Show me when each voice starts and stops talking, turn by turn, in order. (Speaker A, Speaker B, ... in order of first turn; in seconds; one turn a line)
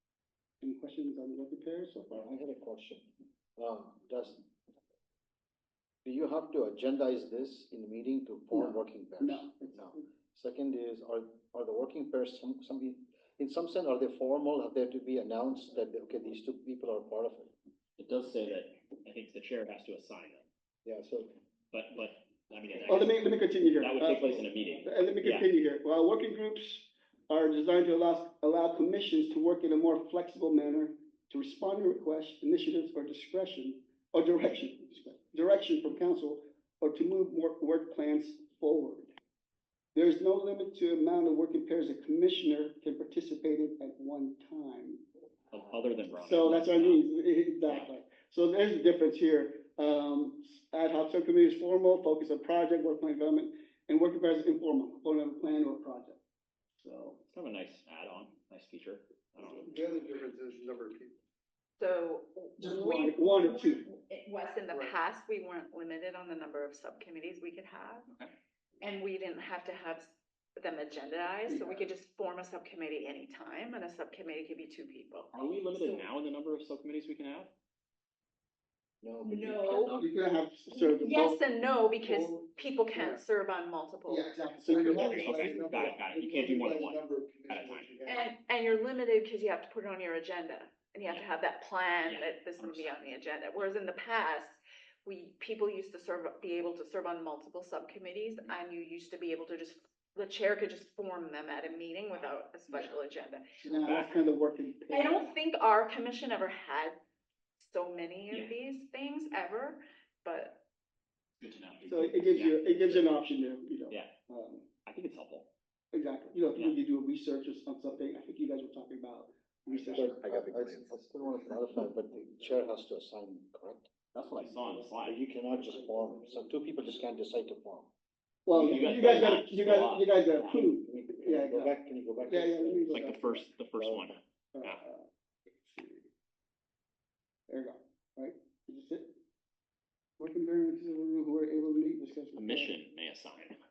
Speaker A: 0.6-2.2
Speaker B: 2.1-4.4
Speaker B: 6.0-17.5
Speaker A: 8.5-10.0
Speaker C: 18.0-20.4
Speaker B: 20.8-21.3
Speaker C: 21.7-25.4
Speaker A: 22.9-39.1
Speaker A: 39.9-45.0
Speaker C: 45.5-47.1
Speaker A: 46.2-56.2
Speaker C: 47.6-47.9
Speaker A: 56.8-57.2
Speaker C: 57.3-59.7
Speaker D: 59.4-61.2
Speaker E: 61.8-68.1
Speaker A: 62.6-63.8
Speaker D: 64.7-65.0
Speaker E: 68.8-76.0
Speaker A: 71.5-71.8
Speaker C: 75.3-77.5
Speaker B: 79.0-80.0
Speaker E: 79.2-80.0
Speaker A: 80.0-81.4
Speaker E: 80.7-85.2
Speaker D: 82.0-83.2
Speaker A: 84.1-85.9
Speaker D: 84.6-88.3
Speaker C: 84.7-88.1
Speaker E: 88.0-103.5
Speaker C: 91.0-91.3
Speaker C: 92.0-92.9
Speaker A: 103.6-105.3
Speaker C: 103.7-104.1
Speaker E: 104.9-107.0
Speaker E: 107.7-110.6
Speaker C: 111.4-113.1
Speaker A: 111.8-114.7
Speaker C: 114.8-115.5
Speaker A: 115.9-120.2
Speaker D: 119.8-121.0
Speaker B: 119.9-123.9
Speaker C: 124.1-125.2
Speaker B: 125.0-127.9
Speaker A: 128.4-131.7
Speaker C: 128.5-130.5
Speaker B: 128.6-129.0
Speaker B: 130.6-133.0
Speaker A: 132.3-133.4
Speaker C: 132.9-134.8
Speaker B: 133.8-134.1
Speaker A: 134.5-135.1
Speaker A: 135.6-136.1
Speaker A: 137.5-139.1
Speaker A: 140.2-142.7
Speaker C: 142.3-143.6